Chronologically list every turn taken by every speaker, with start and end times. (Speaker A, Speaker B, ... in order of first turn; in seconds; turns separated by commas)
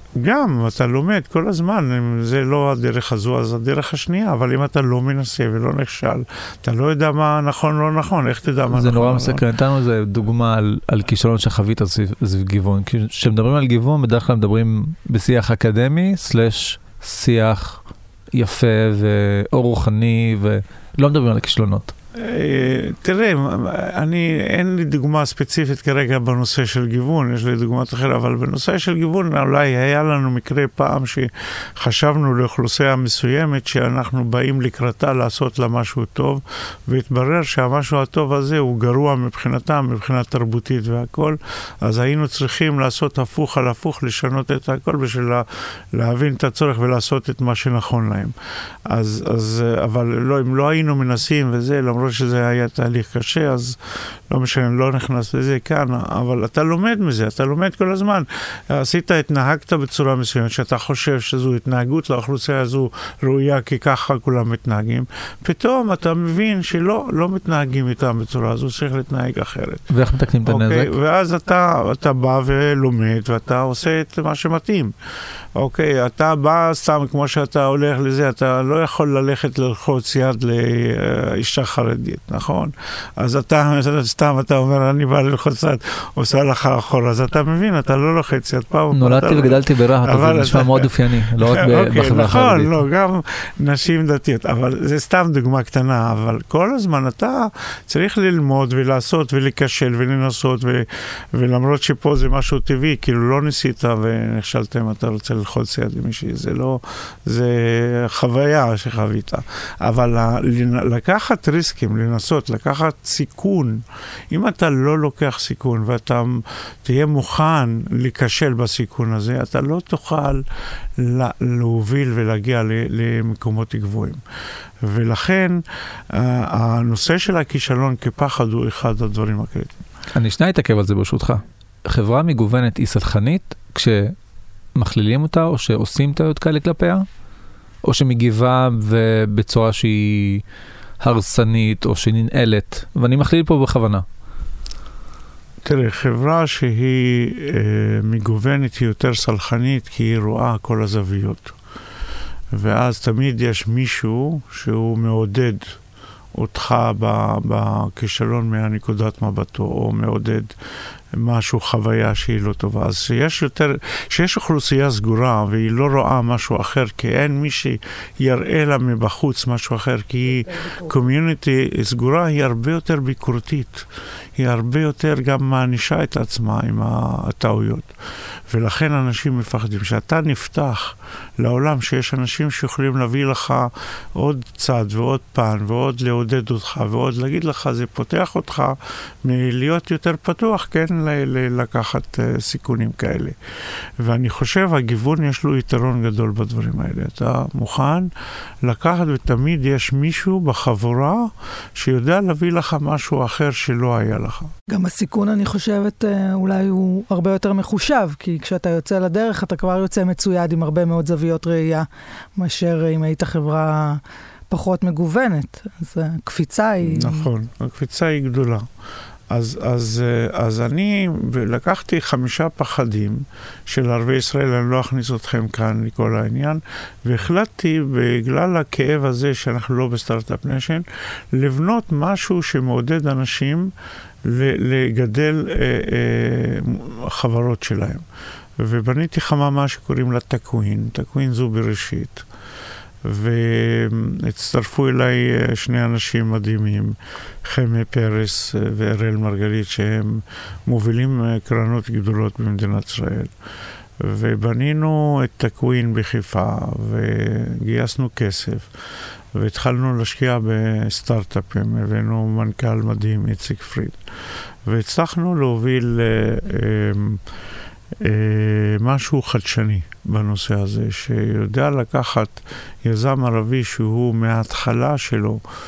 Speaker A: 0.2-9.5, Speaker B: 8.7-17.8, Speaker B: 18.3-21.9, Speaker A: 22.1-48.3, Speaker A: 48.9-69.9, Speaker B: 69.9-70.9, Speaker A: 70.5-74.9, Speaker A: 75.6-120.5, Speaker B: 88.9-92.8, Speaker A: 121.0-124.2, Speaker A: 124.8-129.8, Speaker B: 130.2-134.2, Speaker B: 134.8-137.1, Speaker B: 137.8-140.4, Speaker B: 141.0-144.1, Speaker A: 145.6-151.6, Speaker A: 152.5-155.8, Speaker A: 156.3-160.5, Speaker A: 161.1-177.9, Speaker A: 178.5-193.4, Speaker A: 194.0-198.1, Speaker A: 198.6-204.5, Speaker C: 204.7-217.3, Speaker A: 216.8-218.7, Speaker A: 219.3-233.7, Speaker A: 234.2-238.1, Speaker A: 238.6-242.3, Speaker A: 243.0-253.3, Speaker A: 254.0-258.7, Speaker A: 259.3-264.0, Speaker A: 264.6-267.2, Speaker A: 267.9-275.4